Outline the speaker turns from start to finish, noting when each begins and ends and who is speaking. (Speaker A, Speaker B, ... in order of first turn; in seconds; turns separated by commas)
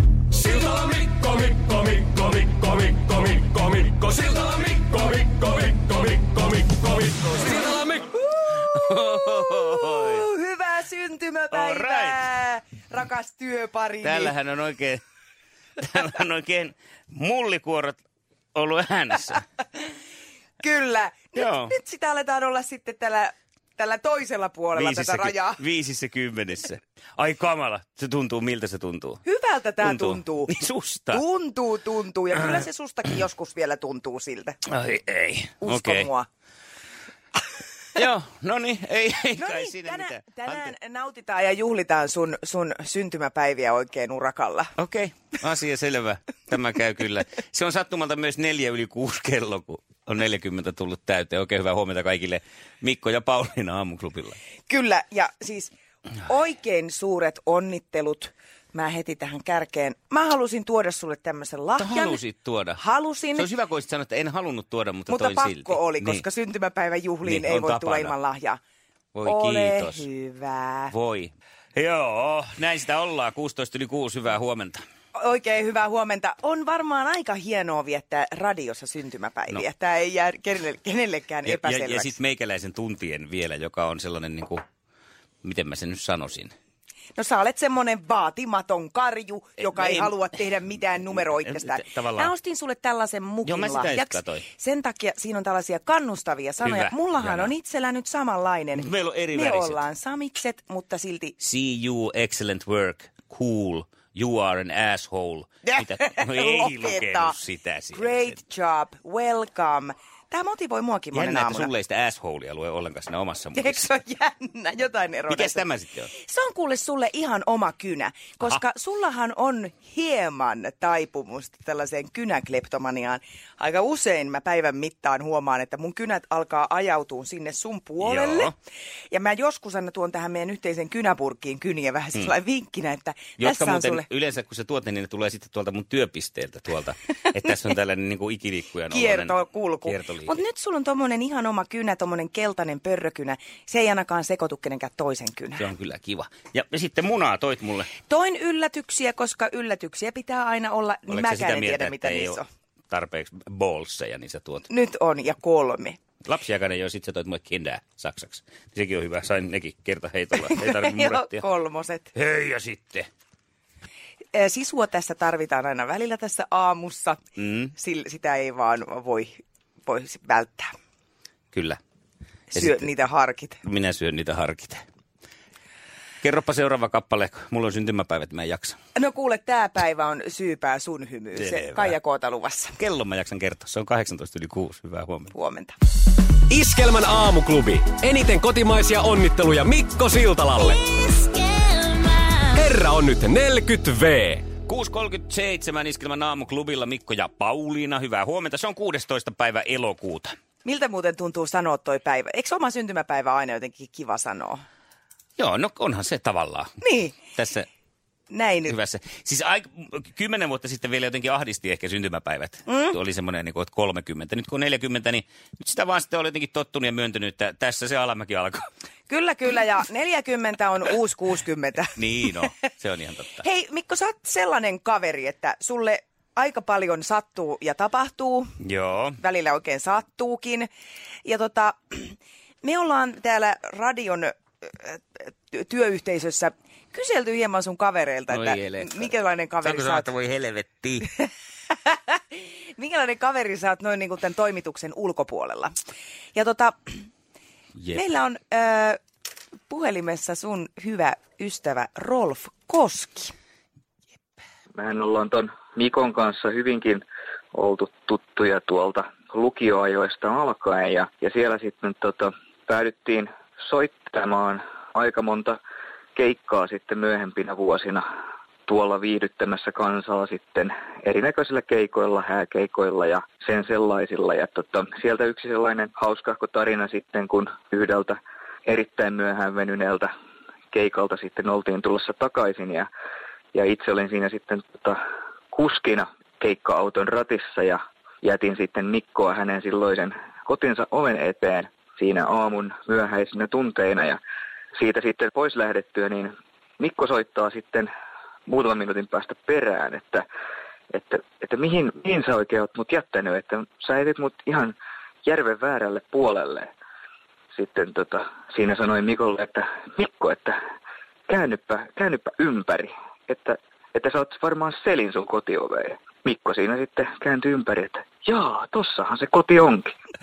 Speaker A: 0.3-8.0, Speaker B: 8.5-14.3, Speaker C: 8.7-10.2, Speaker C: 11.5-12.2, Speaker C: 14.0-15.0, Speaker C: 15.8-18.0, Speaker C: 18.5-19.4, Speaker B: 20.6-25.6, Speaker C: 21.3-21.7, Speaker C: 24.7-29.2, Speaker B: 29.2-30.5, Speaker C: 29.8-31.2, Speaker B: 31.1-34.6, Speaker C: 34.7-36.1, Speaker B: 35.6-36.3, Speaker C: 37.9-40.7, Speaker B: 39.3-44.7, Speaker C: 44.8-54.4, Speaker B: 54.7-55.7, Speaker B: 56.3-62.2, Speaker C: 61.8-62.8, Speaker B: 62.7-63.5, Speaker C: 63.3-66.2, Speaker B: 65.1-68.6, Speaker C: 67.2-68.2, Speaker C: 69.1-70.0, Speaker B: 69.2-70.9, Speaker C: 70.9-74.8, Speaker B: 75.2-82.1, Speaker C: 81.4-84.6, Speaker C: 85.4-86.5, Speaker B: 87.2-101.3, Speaker C: 89.6-90.1, Speaker C: 91.4-92.3, Speaker C: 93.4-94.4, Speaker C: 96.6-97.5, Speaker C: 98.8-99.8, Speaker C: 101.4-108.4, Speaker B: 105.6-107.4, Speaker B: 107.9-111.7, Speaker C: 111.1-114.0, Speaker B: 113.5-115.7, Speaker C: 115.3-116.1, Speaker B: 116.2-128.5, Speaker C: 128.0-128.5, Speaker B: 129.1-134.1, Speaker C: 133.4-140.3, Speaker B: 138.9-145.6, Speaker C: 145.6-147.9, Speaker B: 148.1-152.4, Speaker C: 151.1-152.4, Speaker C: 152.9-154.7, Speaker B: 154.7-156.0, Speaker C: 156.2-161.4, Speaker B: 160.4-162.1, Speaker C: 162.1-163.1, Speaker B: 164.3-170.7, Speaker C: 167.4-167.7, Speaker C: 171.5-171.8, Speaker B: 172.5-173.6, Speaker C: 172.5-172.9, Speaker C: 173.6-174.8, Speaker C: 176.2-178.8, Speaker B: 179.0-182.7, Speaker C: 181.3-181.9, Speaker C: 182.8-185.3, Speaker B: 185.3-185.8, Speaker A: 186.5-190.8, Speaker A: 192.5-194.4, Speaker C: 194.6-200.3, Speaker B: 200.6-204.6, Speaker C: 205.4-207.7, Speaker B: 206.8-207.2, Speaker B: 208.3-208.7, Speaker C: 208.6-218.6, Speaker B: 212.7-212.9, Speaker B: 219.1-222.0, Speaker C: 221.9-223.4, Speaker B: 223.4-228.5, Speaker C: 228.6-229.1, Speaker B: 229.2-230.7, Speaker B: 231.2-240.1, Speaker C: 238.3-241.1, Speaker B: 241.7-245.7, Speaker B: 246.3-246.9, Speaker B: 247.9-249.0, Speaker B: 249.7-253.3, Speaker D: 254.7-265.6, Speaker D: 266.1-268.1, Speaker D: 268.7-280.1, Speaker D: 280.7-282.9, Speaker D: 283.5-285.0, Speaker D: 285.5-294.2, Speaker D: 294.7-297.9, Speaker D: 298.4-300.2, Speaker D: 300.9-306.7, Speaker D: 307.5-310.6, Speaker D: 311.3-319.9